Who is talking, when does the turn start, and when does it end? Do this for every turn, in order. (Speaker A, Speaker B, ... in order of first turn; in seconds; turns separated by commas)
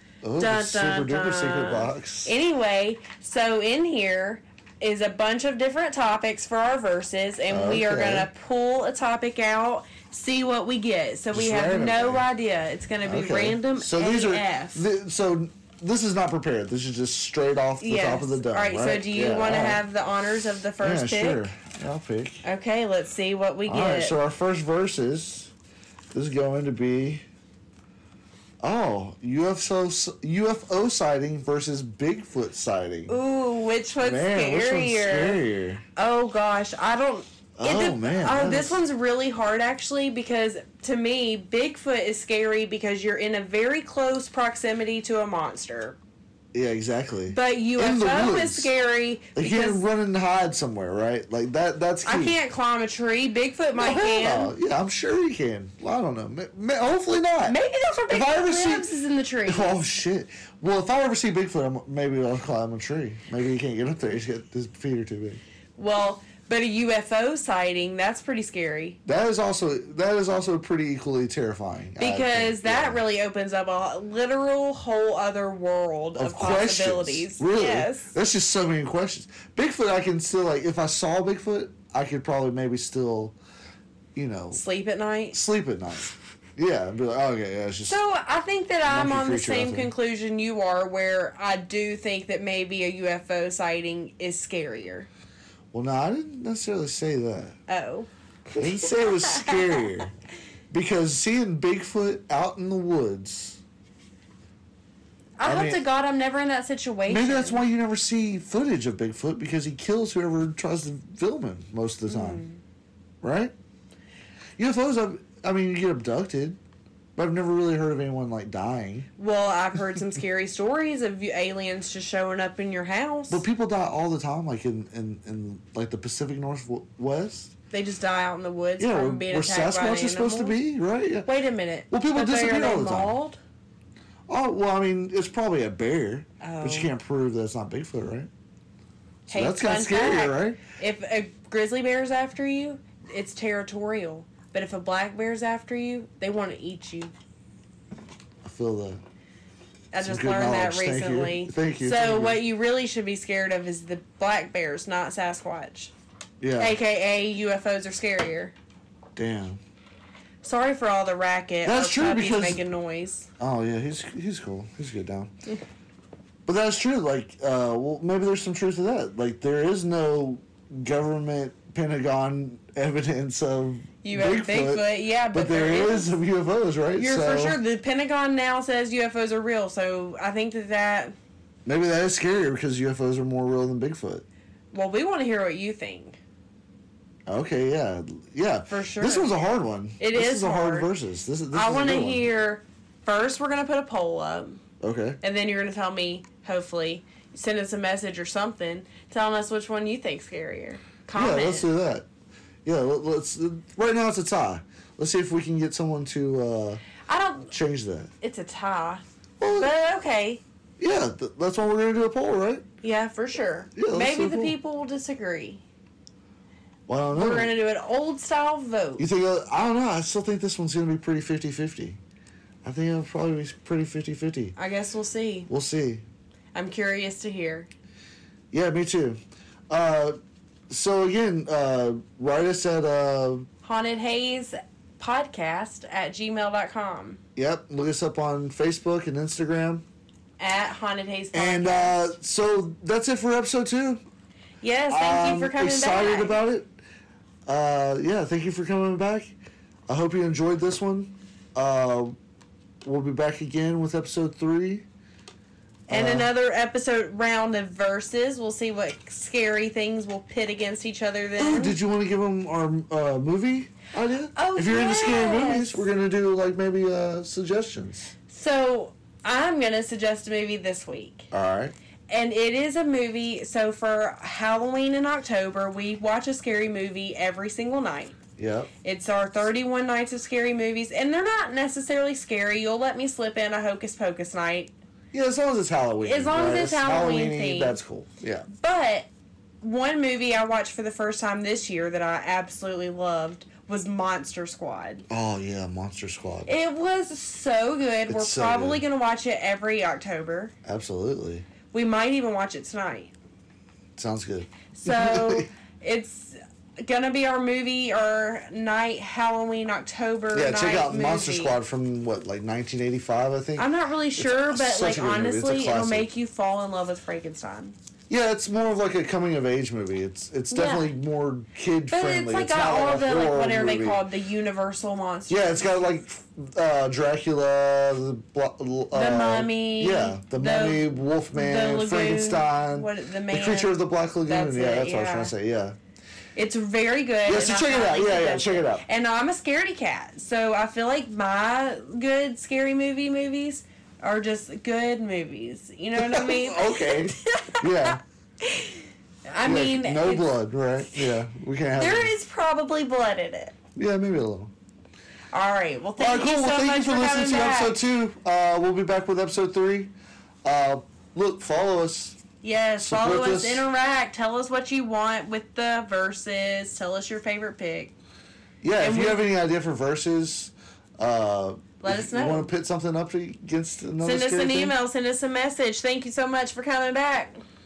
Speaker A: 0.2-2.3, Speaker B: 0.4-14.8, Speaker A: 7.5-8.3, Speaker A: 11.3-12.3, Speaker A: 13.0-19.8, Speaker B: 17.8-21.5, Speaker A: 20.8-22.4, Speaker B: 22.4-24.1, Speaker A: 23.7-25.5, Speaker A: 26.1-27.2, Speaker A: 28.6-33.1, Speaker B: 33.1-35.4, Speaker A: 34.0-35.8, Speaker B: 36.0-46.0, Speaker A: 37.6-38.8, Speaker A: 46.5-48.7, Speaker B: 47.3-49.8, Speaker A: 49.4-52.4, Speaker B: 52.0-54.5, Speaker A: 53.8-57.6, Speaker B: 57.4-59.9, Speaker A: 58.1-58.9, Speaker A: 59.5-65.4, Speaker B: 65.8-69.0, Speaker A: 69.0-73.0, Speaker B: 72.0-78.1, Speaker A: 76.2-83.3, Speaker A: 84.1-84.6, Speaker B: 84.5-85.4, Speaker A: 85.3-88.0, Speaker B: 87.9-95.1, Speaker A: 88.8-89.9, Speaker A: 95.7-97.6, Speaker B: 97.7-99.8, Speaker A: 98.5-100.1, Speaker A: 100.7-103.6, Speaker B: 105.4-107.6, Speaker A: 105.4-105.8, Speaker A: 107.1-112.4, Speaker B: 112.1-112.6, Speaker A: 113.2-113.5, Speaker A: 114.6-116.6, Speaker A: 117.2-119.1, Speaker B: 119.2-123.4, Speaker A: 123.3-127.5, Speaker B: 127.7-130.6, Speaker A: 128.8-131.3, Speaker B: 131.2-133.4, Speaker A: 131.9-133.2, Speaker A: 134.3-138.3, Speaker B: 136.4-136.9, Speaker B: 139.3-147.1, Speaker A: 139.3-140.6, Speaker A: 148.4-149.0, Speaker B: 149.9-155.9, Speaker A: 149.9-152.4, Speaker A: 156.4-156.8, Speaker B: 156.6-158.5, Speaker A: 159.2-159.6, Speaker B: 160.4-163.3, Speaker A: 161.6-162.6, Speaker A: 163.4-165.3, Speaker A: 166.4-177.6, Speaker B: 174.0-176.2, Speaker B: 176.9-181.1, Speaker A: 181.7-184.2, Speaker B: 184.7-186.2, Speaker A: 187.3-192.3, Speaker B: 188.7-189.3, Speaker B: 190.0-190.9, Speaker B: 191.5-194.6, Speaker A: 194.8-195.2, Speaker B: 195.2-201.7, Speaker A: 201.1-202.1, Speaker A: 202.6-206.8, Speaker B: 207.1-207.5, Speaker A: 207.5-208.1, Speaker B: 208.2-210.4, Speaker A: 209.4-209.7, Speaker A: 210.8-212.6, Speaker B: 212.8-215.6, Speaker A: 213.8-214.5, Speaker A: 216.9-217.5, Speaker B: 217.1-219.1, Speaker A: 219.0-222.0, Speaker A: 222.6-224.5, Speaker B: 224.6-225.5, Speaker A: 225.5-226.0, Speaker B: 226.5-227.7, Speaker A: 228.5-230.2, Speaker A: 230.7-233.5, Speaker B: 233.6-237.2, Speaker A: 237.3-239.8, Speaker B: 240.4-242.0, Speaker A: 241.3-244.0, Speaker B: 244.6-246.4, Speaker A: 244.9-246.7, Speaker A: 247.4-249.3, Speaker A: 249.9-252.1, Speaker A: 252.8-254.8, Speaker A: 255.9-256.3, Speaker B: 255.9-261.8, Speaker A: 261.4-268.1, Speaker B: 264.3-265.9, Speaker B: 268.3-271.3, Speaker A: 271.3-271.7, Speaker B: 272.1-278.2, Speaker A: 278.4-278.7, Speaker B: 278.8-284.7, Speaker A: 285.1-288.5, Speaker B: 286.0-287.8, Speaker B: 288.5-289.1, Speaker B: 289.6-295.1, Speaker A: 295.1-296.5, Speaker B: 296.4-300.5, Speaker A: 298.1-298.8, Speaker A: 300.6-301.5, Speaker B: 301.7-303.1, Speaker A: 303.9-305.5, Speaker B: 304.7-311.6, Speaker A: 310.3-316.1, Speaker B: 313.6-317.7, Speaker A: 318.1-324.0, Speaker B: 320.5-320.9, Speaker B: 321.9-325.7, Speaker A: 325.3-335.8, Speaker B: 328.9-335.3, Speaker B: 336.4-350.3, Speaker A: 337.2-338.8, Speaker A: 345.9-348.0, Speaker A: 349.4-352.1, Speaker B: 351.8-353.5, Speaker A: 353.8-354.5, Speaker B: 355.3-357.8, Speaker A: 356.0-359.9, Speaker A: 360.4-362.2, Speaker B: 362.4-367.9, Speaker A: 362.8-363.6, Speaker A: 368.6-374.7, Speaker B: 368.8-369.2, Speaker B: 371.8-372.5, Speaker B: 374.0-377.4